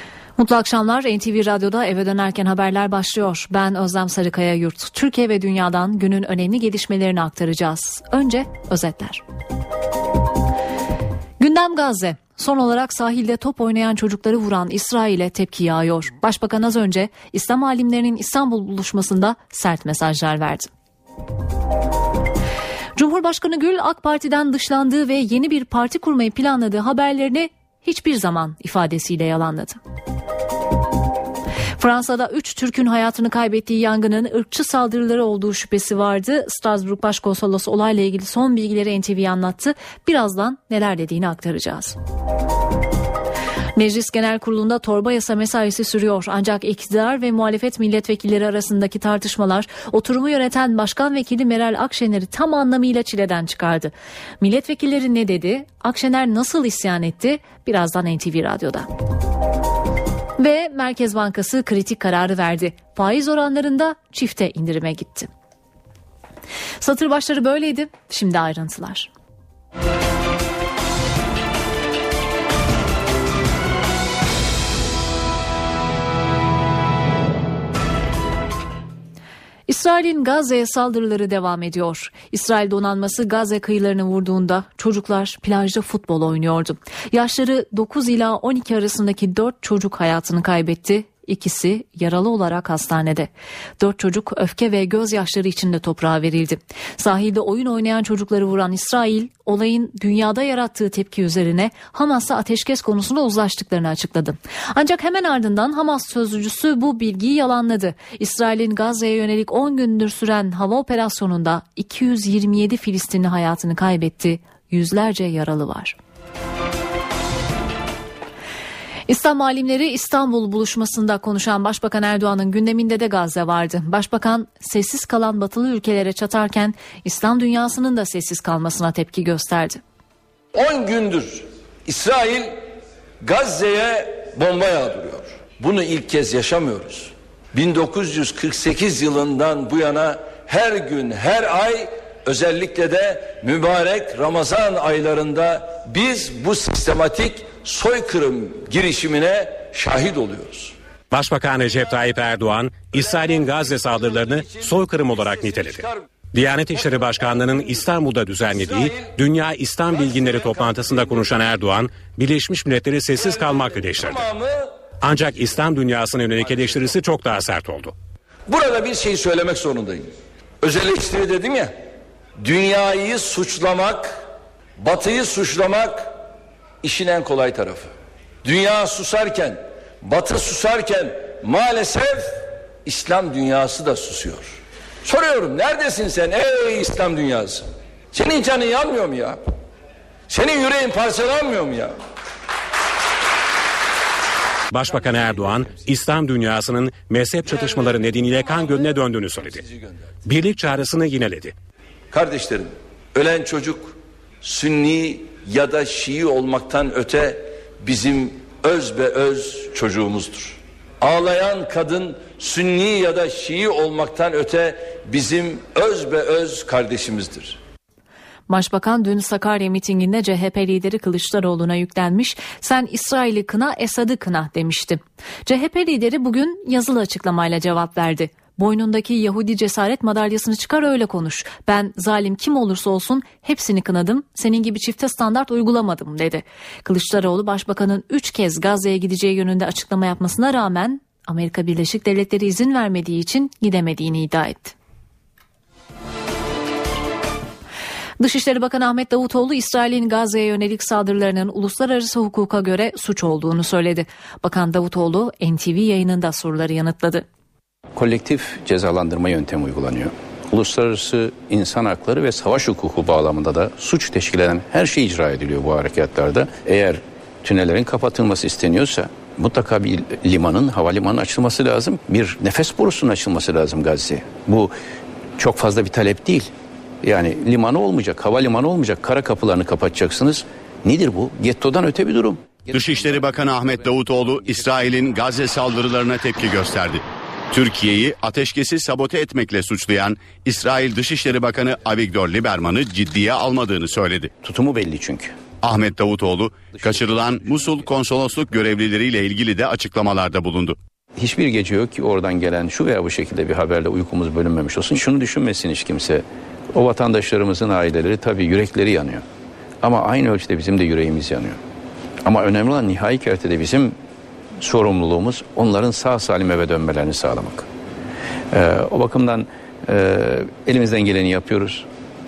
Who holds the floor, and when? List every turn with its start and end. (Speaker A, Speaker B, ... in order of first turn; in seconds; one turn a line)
Speaker A: 0.4-9.2
Speaker A: 11.4-20.7
Speaker A: 22.9-29.8
Speaker A: 31.8-42.0
Speaker A: 43.8-58.9
Speaker A: 60.4-65.3
Speaker A: 66.8-69.1
Speaker A: 79.7-116.0
Speaker A: 119.1-129.8
Speaker B: 130.5-132.6
Speaker B: 133.2-150.7
Speaker C: 151.1-164.2
Speaker B: 153.3-156.0
Speaker B: 158.5-159.1
Speaker B: 160.3-160.9
Speaker B: 163.2-164.7
Speaker C: 165.0-167.9
Speaker B: 168.5-170.1
Speaker B: 170.6-171.7
Speaker B: 172.4-174.2
Speaker B: 174.8-176.1
Speaker B: 176.8-177.9
Speaker B: 178.4-189.4
Speaker B: 190.3-191.9
Speaker C: 194.7-199.6
Speaker C: 200.2-201.5
Speaker B: 202.1-217.6
Speaker A: 218.5-244.7
Speaker A: 248.2-257.2
Speaker D: 257.9-274.7
Speaker D: 275.4-276.5
Speaker D: 277.0-283.4
Speaker E: 282.7-294.3
Speaker D: 294.4-295.4
Speaker E: 295.6-300.8
Speaker D: 301.2-309.2
Speaker D: 309.8-311.6
Speaker D: 312.2-314.0
Speaker D: 314.6-317.7
Speaker D: 318.5-321.9